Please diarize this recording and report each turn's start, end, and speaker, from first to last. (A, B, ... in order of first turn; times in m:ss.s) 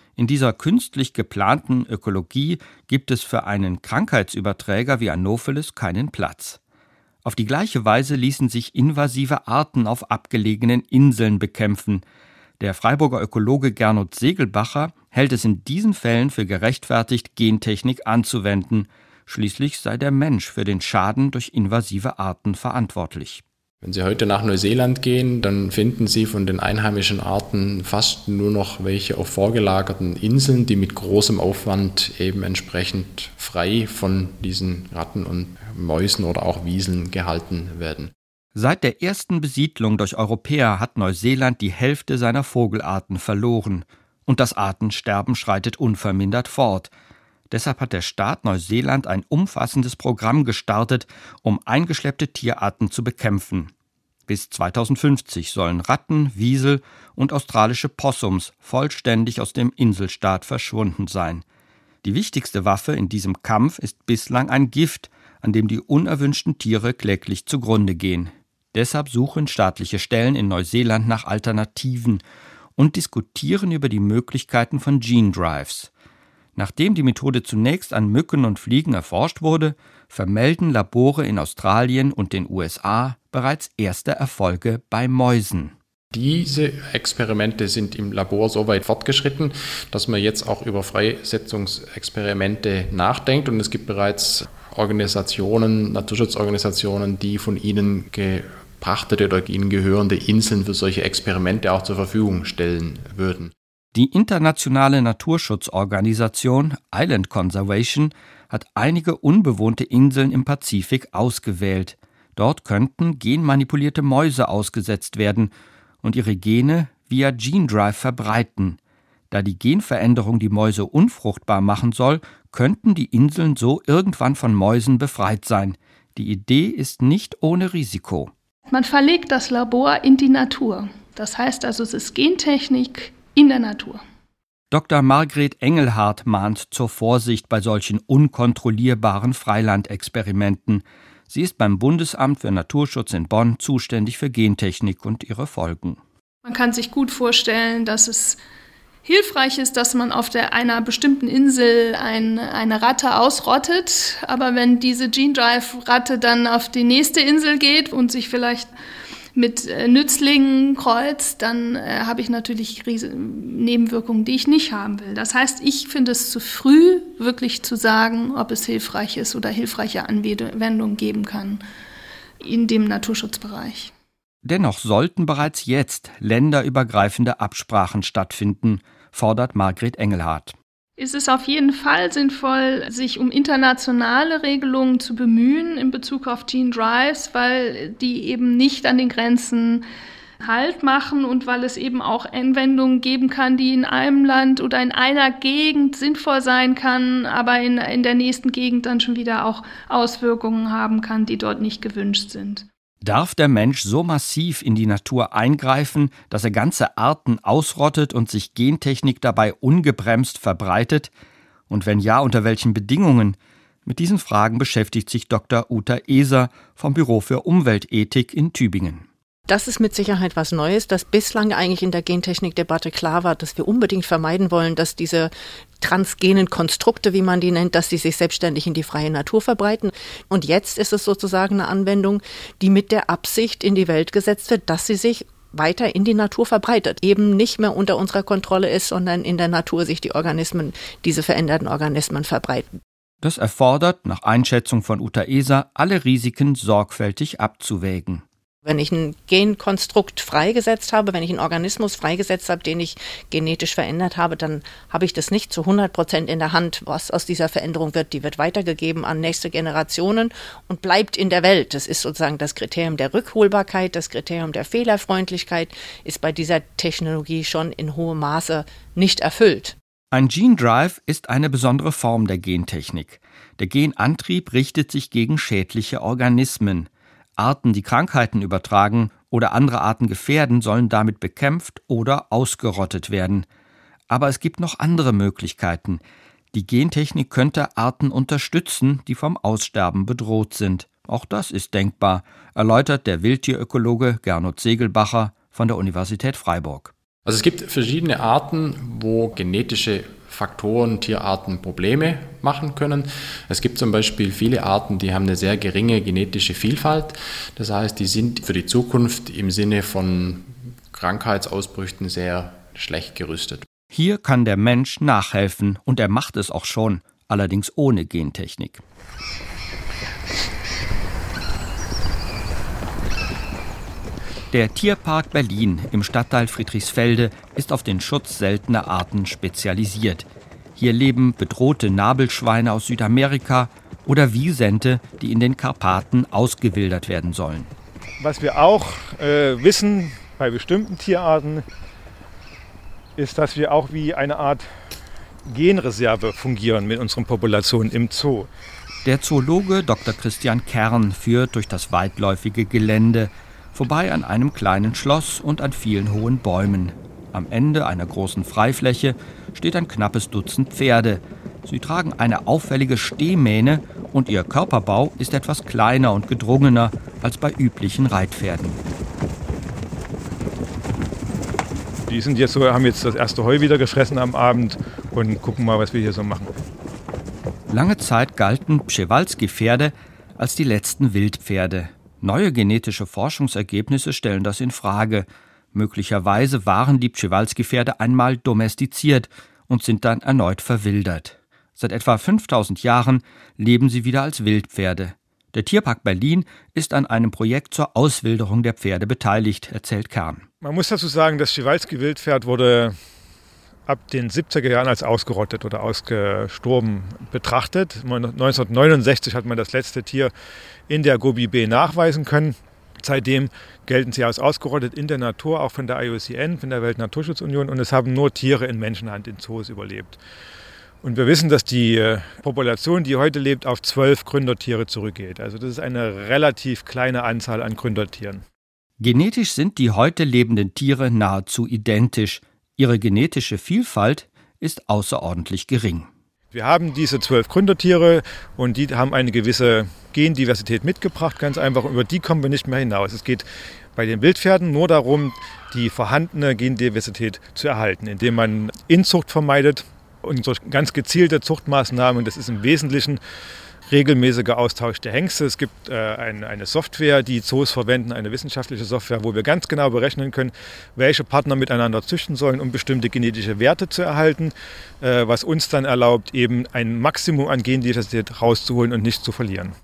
0:00.2-0:06.6 A
0:07.2-0:12.0 A
0:12.6-0:23.4 A
0:23.8-0:38.1 B
0:38.5-0:46.9 A
0:47.5-0:53.7 A
0:54.3-1:01.4 A
1:02.0-1:12.2 A
1:12.8-1:15.9 A
1:16.6-1:25.7 A
1:26.1-1:43.5 B
1:43.9-1:55.5 A
1:56.0-1:58.8 A
1:59.3-2:08.3 A
2:08.7-2:14.0 C
2:14.7-2:26.0 A
2:26.4-2:28.4 C
2:29.0-2:38.7 C
2:39.3-2:51.6 C
2:52.4-2:53.9 C
2:54.4-3:00.5 A
3:01.0-3:09.8 C
3:10.4-3:22.6 C
3:23.0-3:31.1 A
3:31.7-3:39.0 A
3:39.5-4:02.7 D
4:03.2-4:08.2 A
4:08.6-4:29.7 D
4:30.1-4:43.4 A
4:44.1-4:46.0 A
4:46.5-4:56.9 A
4:57.2-5:13.6 B
5:13.9-5:18.8 A
5:24.5-5:37.7 A
5:38.2-5:41.6 E
5:43.2-5:44.7 E
5:45.5-5:48.5 E
5:49.0-6:08.8 A
6:12.1-6:16.5 E
6:17.7-6:40.4 A
6:40.6-6:43.0 E
6:43.8-6:50.3 E
6:50.9-7:00.2 E
7:01.0-7:08.4 E
7:09.0-7:16.1 A
7:16.5-7:33.2 E
7:33.9-7:49.7 E